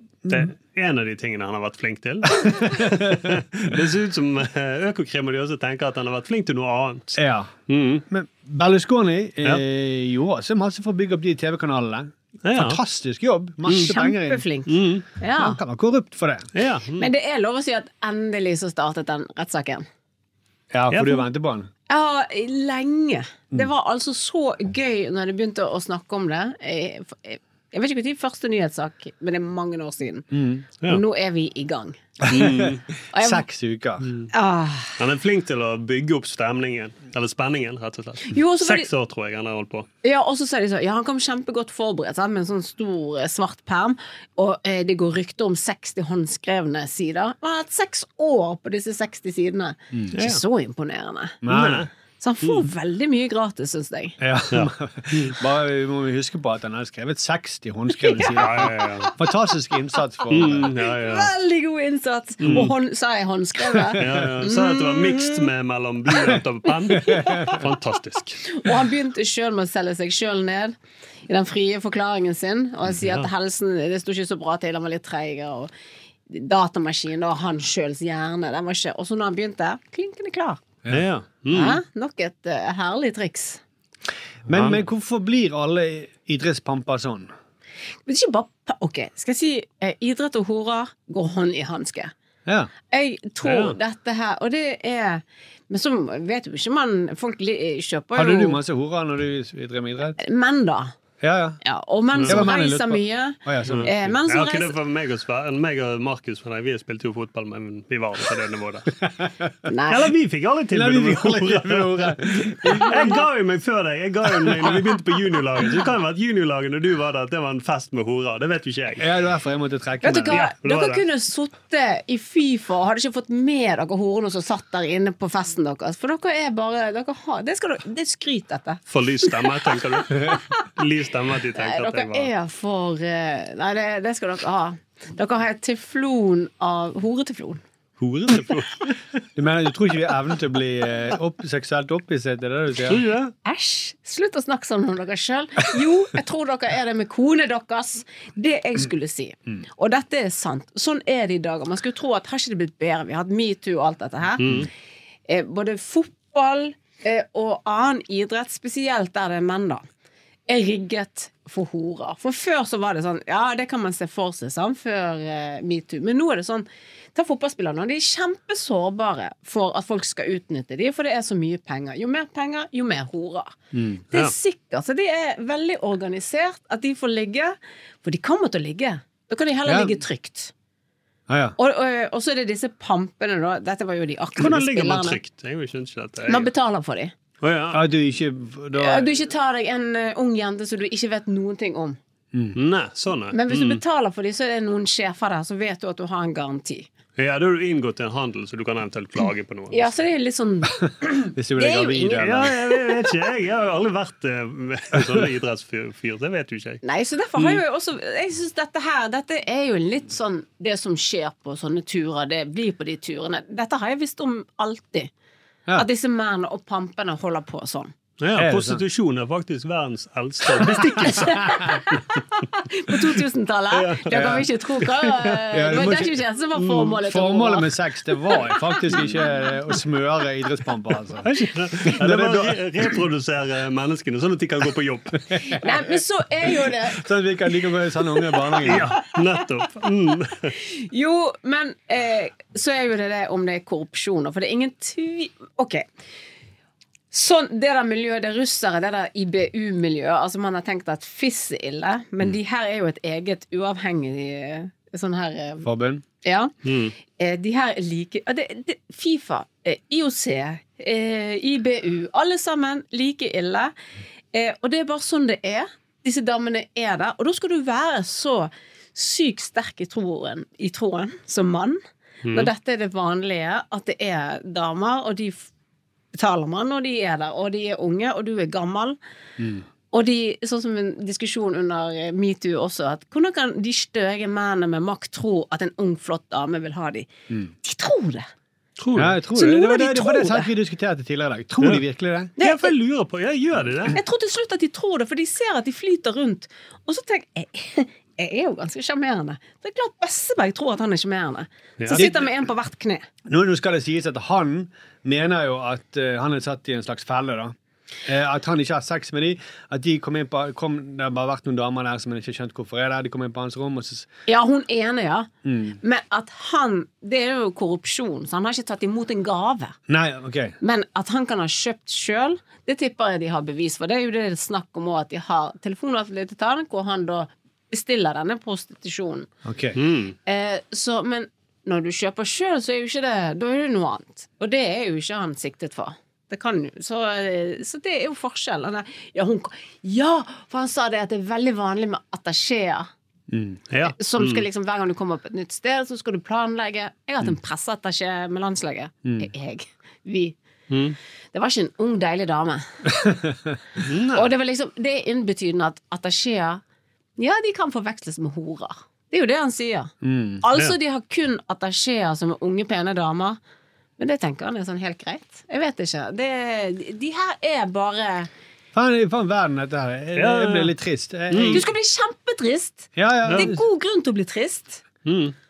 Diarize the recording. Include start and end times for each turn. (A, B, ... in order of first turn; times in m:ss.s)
0:00.3-0:00.5 A
0:00.3-0:07.2 B
0:02.8-0:03.1 A
0:07.1-0:07.5 A
0:07.7-0:08.0 B
0:08.1-0:14.4 A
0:12.4-0:12.8 B
0:13.7-0:13.9 B
0:13.7-0:15.6 C
0:14.7-0:15.0 B
0:15.4-0:16.5 A
0:16.6-0:17.1 B
0:17.0-0:19.9 C
0:20.7-0:21.7 A
0:20.9-0:21.2 B
0:21.9-0:30.3 C
0:30.3-0:30.6 A
0:30.8-0:32.0 C
0:32.2-0:34.1 A
0:32.3-0:32.8 B
0:33.1-0:33.4 C
0:34.3-0:34.9 C
0:35.0-0:39.9 B
0:38.3-0:38.9 C
0:40.0-0:51.4 C
0:50.2-0:50.4 B
0:51.4-0:51.9 A
0:51.5-0:51.9 B
0:52.2-0:54.2 C
0:54.2-1:00.7 A
0:54.5-0:55.4 B
0:58.0-0:59.1 C
0:58.3-0:59.1 B
1:00.3-1:01.3 B
1:00.5-1:05.5 C
1:02.4-1:02.7 B
1:02.5-1:02.7 A
1:04.0-1:08.5 B
1:06.9-1:07.5 C
1:08.5-1:10.8 C
1:11.3-1:15.7 C
1:12.9-1:13.3 B
1:16.3-1:20.6 C
1:20.9-1:21.8 B
1:21.5-1:23.6 C
1:24.5-1:27.3 A
1:24.5-1:24.8 B
1:28.1-1:32.1 C
1:32.5-1:32.7 A
1:32.9-1:38.6 C
1:33.4-1:33.8 B
1:38.2-1:40.2 A
1:40.2-1:40.9 C
1:41.2-1:41.6 A
1:41.6-1:44.8 C
1:42.1-1:42.4 B
1:42.2-1:44.2 A
1:43.7-1:49.0 B
1:49.7-1:50.1 C
1:49.9-1:59.1 B
1:50.7-1:53.2 A
1:54.4-1:54.9 A
1:59.0-2:00.4 A
2:00.0-2:09.3 C
2:00.3-2:01.0 B
2:08.9-2:12.3 B
2:10.1-2:10.4 C
2:11.6-2:17.6 C
2:18.0-2:19.0 B
2:19.4-2:23.0 A
2:22.9-2:23.3 B
2:23.4-2:34.7 C
2:34.4-2:34.7 B
2:35.3-2:39.8 C
2:40.5-2:53.6 C
2:53.7-2:54.0 A
2:54.1-3:00.5 C
2:59.7-3:00.0 A
3:01.3-3:01.6 A
3:01.6-3:05.2 C
3:04.4-3:06.5 B
3:06.3-3:07.1 C
3:07.4-3:07.8 B
3:07.7-3:09.1 A
3:08.8-3:12.0 C
3:12.3-3:12.6 A
3:12.6-3:13.8 B
3:13.3-3:16.9 C
3:17.2-3:20.0 B
3:19.7-3:22.5 C
3:21.3-3:22.6 A
3:22.2-3:26.8 B
3:26.8-3:35.1 C
3:27.4-3:27.6 B
3:35.8-3:37.9 C
3:38.2-3:42.0 B
3:38.4-3:38.8 A
3:40.7-3:41.8 C
3:42.5-3:47.7 C
3:43.7-3:44.5 B
3:44.1-3:44.5 A
3:45.0-3:46.2 A
3:46.6-3:46.9 B
3:46.9-3:51.3 A
3:51.2-3:55.5 B
3:51.8-3:52.9 A
3:55.5-3:57.0 C
3:57.0-3:58.9 A
3:58.6-4:00.5 B
4:00.6-4:05.8 C
4:07.1-4:15.7 C
4:15.6-4:16.0 A
4:16.2-4:23.7 C
4:16.6-4:16.9 B
4:24.3-4:31.8 C
4:32.2-4:32.5 B
4:32.3-4:35.5 C
4:36.2-4:39.0 C
4:39.4-4:39.6 A
4:39.9-4:47.1 C
4:47.6-4:48.3 C
4:48.8-4:49.2 B
4:49.0-4:52.3 A
4:49.4-4:50.5 C
4:52.4-4:52.7 C
4:52.4-4:54.0 B
4:53.9-5:03.1 C
5:01.8-5:02.2 B
5:01.9-5:02.3 A
5:03.3-5:07.6 A
5:08.1-5:14.1 A
5:14.3-5:15.3 C
5:15.4-5:15.8 A
5:15.8-5:19.8 C
5:19.9-5:20.6 A
5:20.6-5:29.3 C
5:29.4-5:29.8 A
5:29.8-5:30.2 B
5:30.2-5:42.9 C
5:43.3-5:43.6 A
5:43.7-5:44.4 B
5:44.0-5:50.4 C
5:50.7-5:51.0 B
5:51.3-5:53.0 C
5:53.0-5:53.3 A
5:53.8-5:54.3 B
5:54.2-5:56.6 C
5:57.2-6:03.4 C
6:00.0-6:00.4 A
6:04.0-6:08.3 C
6:08.7-6:11.7 A
6:10.2-6:10.7 B
6:11.3-6:11.6 B
6:11.5-6:14.8 C
6:13.0-6:13.6 A
6:13.3-6:13.5 B
6:15.0-6:15.4 B